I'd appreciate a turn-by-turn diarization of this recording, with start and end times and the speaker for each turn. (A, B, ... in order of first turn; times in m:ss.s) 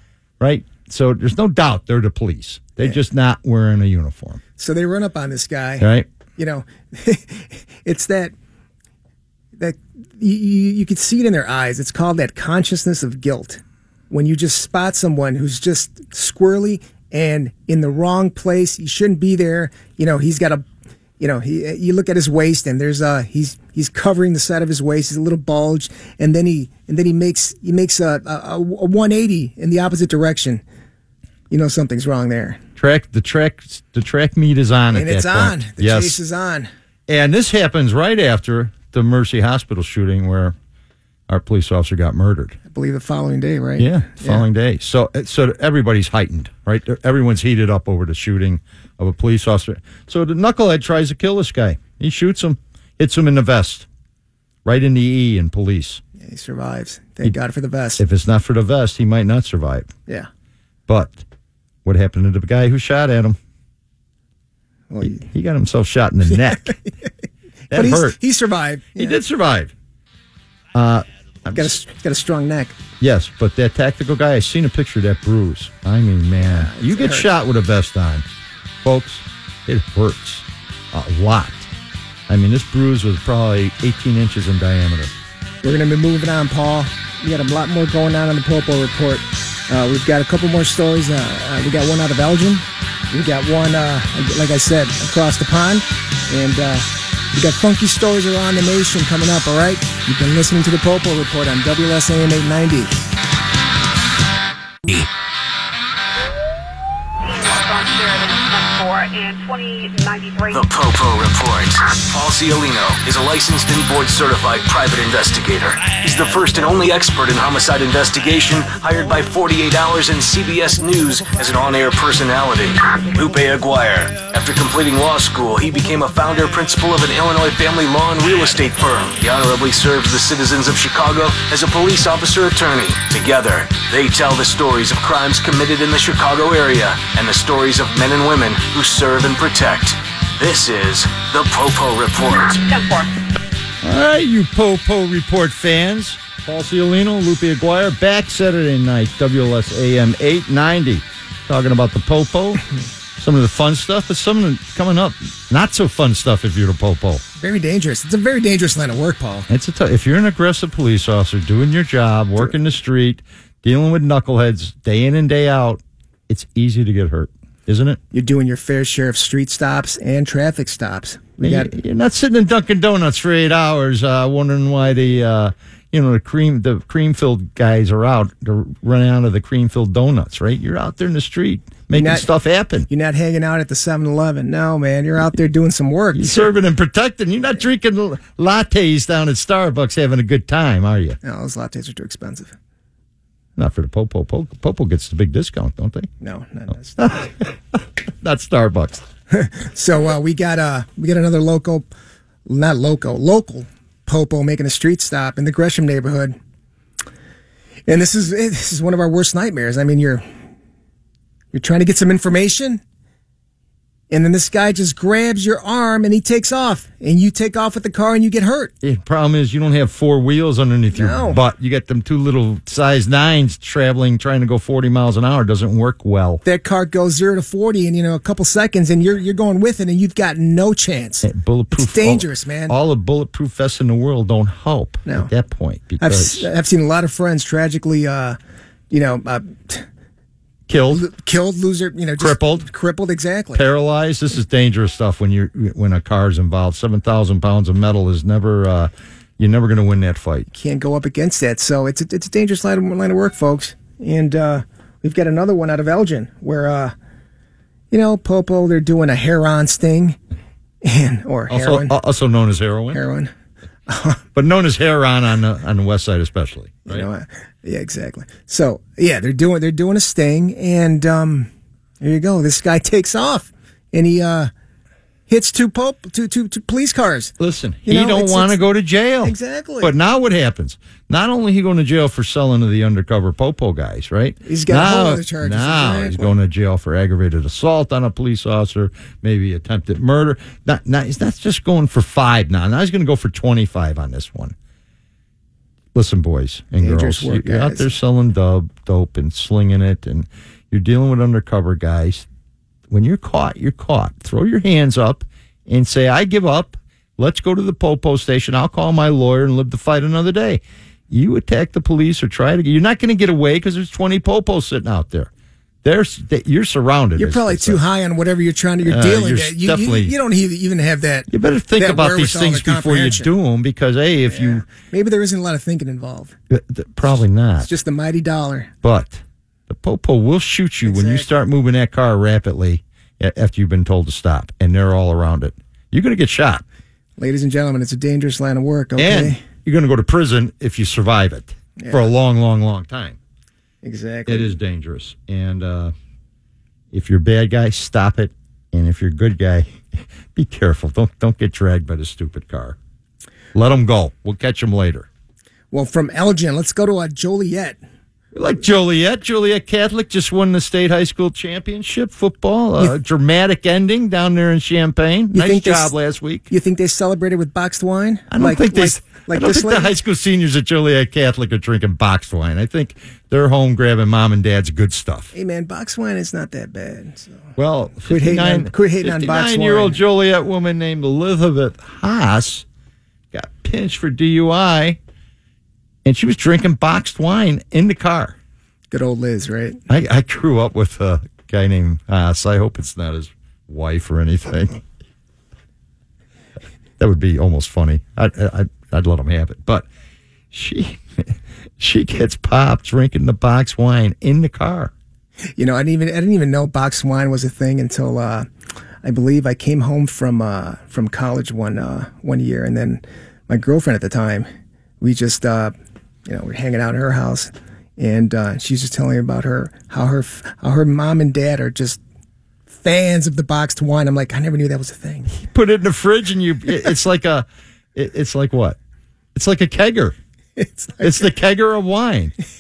0:00.4-0:04.4 A
0:04.6-0:08.3 B
0:05.8-0:06.1 A
0:09.6-0:20.6 B
0:21.2-0:30.6 B
0:31.5-0:32.6 B
0:32.8-0:36.2 A
0:34.9-0:36.7 B
0:37.1-0:40.6 A
0:41.3-0:42.6 A
0:42.7-0:44.4 B
0:43.8-0:53.9 A
0:54.6-0:56.0 A
0:56.2-0:58.0 B
0:58.0-0:59.9 A
1:00.9-1:01.2 A
1:01.8-1:03.4 A
1:04.9-1:05.2 B
1:05.0-1:06.8 A
1:07.7-1:08.2 A
1:07.7-1:09.2 B
1:09.0-1:09.7 A
1:10.7-1:11.8 A
1:11.5-1:12.8 B
1:13.0-1:18.2 A
1:16.4-1:17.3 B
1:18.8-1:21.7 A
1:22.3-1:25.2 A
1:25.6-1:43.0 B
1:47.2-1:50.6 C
1:50.5-2:22.6 D
2:22.3-2:23.3 C
2:23.8-2:32.6 A
2:33.2-2:37.2 A
2:37.4-2:39.5 B
2:39.5-2:48.0 A
2:48.1-2:51.7 B
2:51.4-3:02.9 A
3:01.9-3:02.3 B
3:02.9-3:06.5 B
3:06.2-3:11.2 A
3:11.2-3:12.5 B
3:13.6-3:16.1 A
3:16.2-3:17.2 B
3:17.0-3:19.0 A
3:19.3-3:21.9 B
3:22.5-3:26.4 B
3:27.9-3:30.2 B
3:31.5-3:32.8 B
3:34.1-3:38.7 B
3:38.8-3:46.4 A
3:40.9-3:41.4 B
3:46.4-3:52.8 B
3:51.2-3:56.5 A
3:56.0-3:58.4 B
3:58.9-3:59.9 B
4:00.7-4:01.0 A
4:00.9-4:03.6 B
4:02.2-4:02.7 A
4:03.5-4:10.5 A
4:10.5-4:16.9 B
4:17.9-4:20.2 B
4:20.8-4:22.0 B
4:21.5-4:23.0 A
4:22.9-4:23.3 B
4:23.9-4:24.2 B
4:24.4-4:27.1 A
4:26.9-4:31.5 B
4:32.0-4:34.5 B
4:35.3-4:37.4 B
4:37.4-4:54.6 A
4:37.9-4:38.6 B
4:39.2-4:39.9 B
4:44.4-4:46.3 B
4:56.0-5:02.3 A
4:56.8-4:57.9 B
5:02.9-5:15.3 A
5:15.8-5:17.8 A
5:17.2-5:23.3 B
5:18.8-5:20.1 A
5:21.3-5:24.6 A
5:24.3-5:26.4 B
5:26.5-5:27.7 A
5:27.6-5:28.7 B
5:28.8-5:36.6 A
5:30.9-5:31.3 B
5:37.2-5:39.4 B
5:39.0-5:43.2 A
5:41.8-5:42.1 B
5:43.8-5:44.5 B
5:44.3-5:45.9 A
5:46.9-5:49.8 A
5:50.4-5:52.8 A
5:53.5-5:55.1 A
5:55.7-5:57.8 B
5:58.3-6:06.5 A
6:05.3-6:05.9 B
6:06.5-6:10.0 B
6:08.3-6:15.3 A
6:15.3-6:17.4 B
6:17.6-6:22.6 A
6:18.1-6:20.0 B
6:23.3-6:25.0 A
6:26.0-6:28.4 A
6:28.9-6:29.8 B
6:29.9-6:34.8 A
6:37.0-6:39.9 A
6:40.5-6:44.9 A
6:45.6-6:48.5 B
6:49.0-6:54.5 B
6:55.0-6:55.7 B
6:56.3-7:02.0 B
7:02.7-7:05.4 B
7:05.3-7:08.8 A
7:09.4-7:10.2 A
7:10.6-7:11.3 B
7:11.0-7:12.4 A